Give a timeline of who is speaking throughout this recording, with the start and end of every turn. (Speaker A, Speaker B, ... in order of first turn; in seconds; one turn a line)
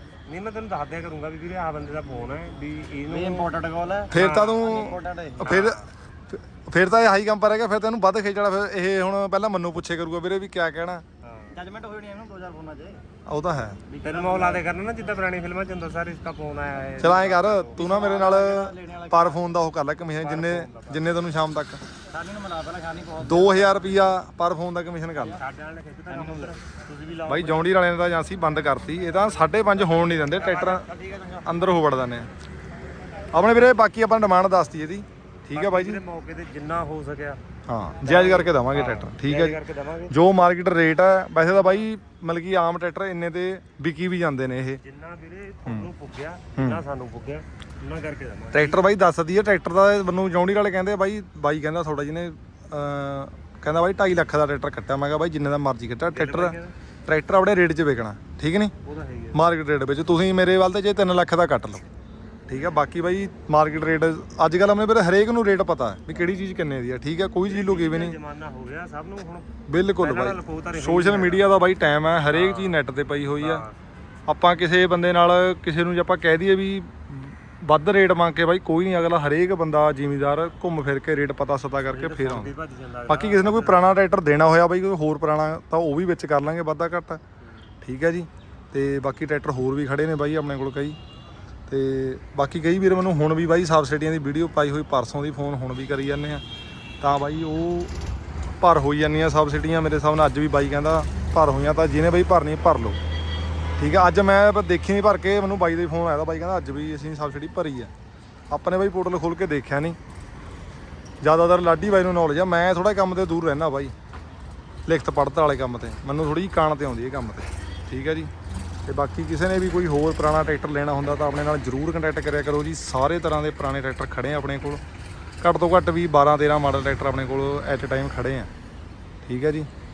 Speaker A: 0.3-3.5
Speaker B: 3.1-5.7
Speaker A: 4.1-5.9
Speaker C: 4.1-11.0
Speaker A: 11.2-11.6
Speaker B: 11.5-13.1
Speaker C: 13.2-13.8
Speaker B: 13.9-14.7
Speaker A: 14.0-17.8
Speaker C: 17.0-21.8
Speaker B: 17.7-19.5
Speaker A: 20.1-21.1
Speaker B: 22.1-24.1
Speaker C: 23.2-25.4
Speaker A: 25.2-27.7
Speaker B: 26.1-26.6
Speaker C: 27.3-30.9
Speaker B: 30.3-31.5
Speaker A: 30.4-30.9
Speaker C: 31.4-32.3
Speaker C: 33.3-36.0
Speaker A: 35.5-37.4
Speaker C: 37.7-39.6
Speaker A: 38.0-40.2
Speaker C: 40.1-44.8
Speaker A: 41.5-41.9
Speaker A: 44.8-49.0
Speaker C: 46.5-46.8
Speaker C: 48.5-58.7
Speaker A: 56.1-56.8
Speaker A: 58.8-59.5
Speaker C: 59.3-61.9
Speaker C: 62.5-68.2
Speaker A: 67.5-71.5
Speaker C: 69.7-73.7
Speaker A: 72.3-73.8
Speaker C: 74.3-82.5
Speaker A: 81.9-84.0
Speaker C: 83.1-87.2
Speaker C: 87.8-91.0
Speaker C: 91.7-96.4
Speaker C: 97.0-97.9
Speaker C: 98.6-103.0
Speaker C: 103.8-107.9
Speaker C: 108.5-110.0
Speaker C: 111.2-113.9
Speaker C: 114.9-118.3
Speaker C: 118.9-124.8
Speaker C: 125.4-128.5
Speaker C: 129.2-129.7